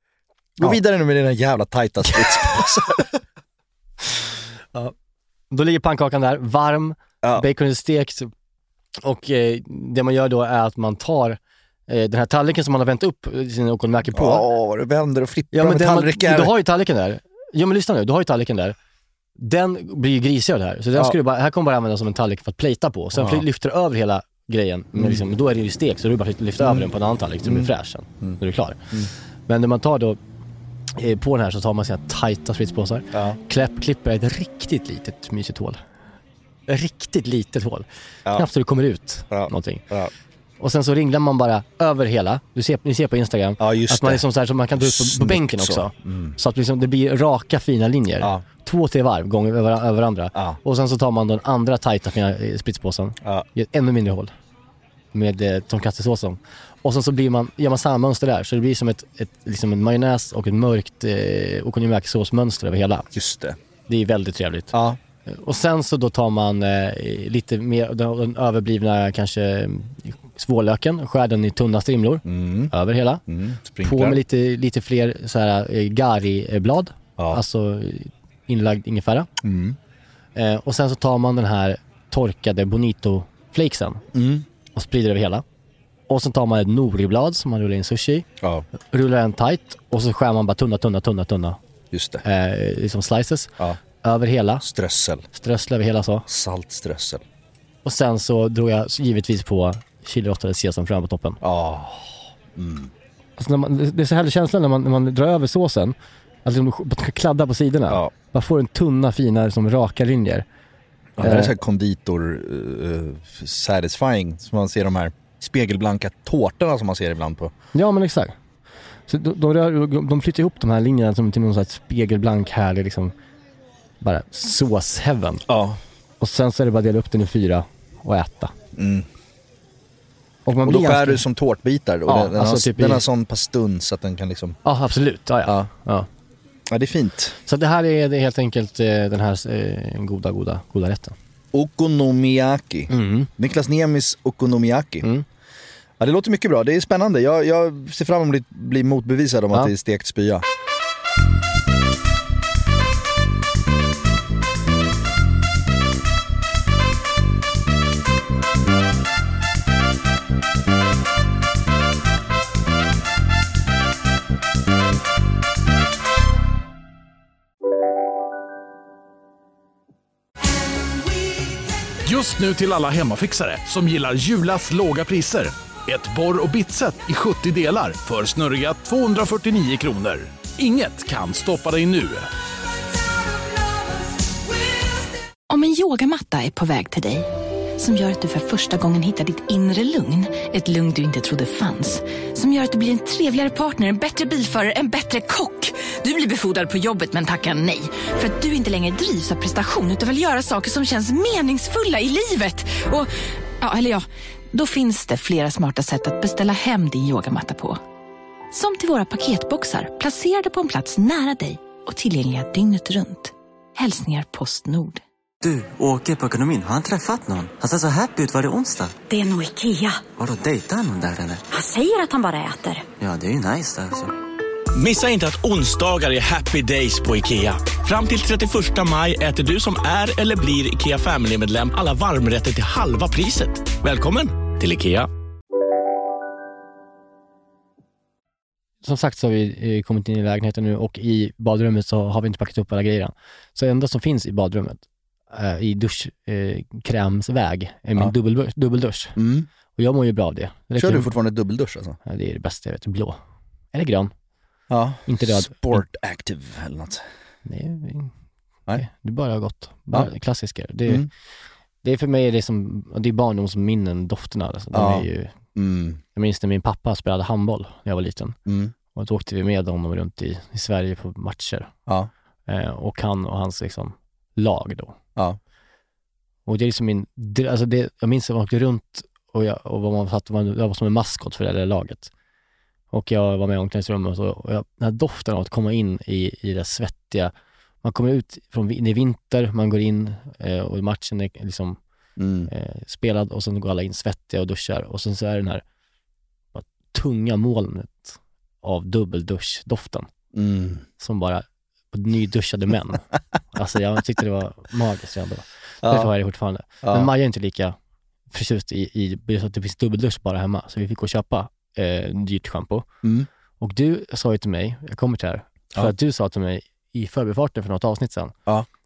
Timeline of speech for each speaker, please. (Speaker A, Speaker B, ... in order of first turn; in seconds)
Speaker A: 0.6-3.1, 7.2-7.5, 14.1-16.5, 23.1-23.4, 24.9-25.2, 26.6-26.9, 27.4-28.4, 33.1-33.4, 39.3-40.1, 43.6-46.4, 63.1-63.6, 64.7-65.0, 72.2-72.7, 73.3-74.2, 79.4-79.8, 84.1-84.5, 91.9-92.2, 94.6-95.2, 96.3-97.2, 101.4-102.9, 111.2-117.5, 125.5-125.8, 128.7-129.1, 130.6-134.6, 136.7-137.4, 141.5-145.1, 146.0-150.4, 249.2-249.5, 250.8-252.0, 254.7-257.0, 264.7-266.0, 268.4-268.7, 292.2-292.5, 300.3-300.8, 305.8-306.1, 306.8-307.1, 313.0-313.3
Speaker B: 5.5-8.3, 9.0-14.4, 15.5-18.8, 19.4-28.8, 29.5-30.2, 30.9-35.8, 36.7-39.8, 40.6-54.3, 55.1-63.1, 63.9-64.7, 65.2-73.2, 73.8-79.3, 80.3-84.0, 84.7-85.4, 86.1-88.2, 88.9-91.6, 92.2-94.6, 95.3-96.2, 97.8-101.4, 103.4-110.4, 111.2-111.5, 117.7-118.3, 119.1-123.1, 124.0-125.5, 126.2-128.5, 130.4-131.2, 132.1-133.0, 134.6-136.1, 137.5-141.1, 142.9-143.3, 238.8-249.2, 249.7-251.1, 252.0-253.2, 253.7-254.1, 255.1-255.8, 257.4-258.1, 258.8-261.1, 261.8-265.3, 266.1-268.4, 268.9-271.7, 272.5-274.9, 276.4-282.1, 282.9-287.3, 287.8-291.8, 292.5-295.6, 296.5-300.1, 301.0-307.7, 308.3-312.9, 313.6-318.3
Speaker C: 172.0-182.3
Speaker D: 185.5-207.8, 208.5-215.0
Speaker E: 215.4-219.0, 220.1-221.4, 223.0-224.1
Speaker F: 219.1-220.1, 221.5-222.8
Speaker G: 224.7-235.1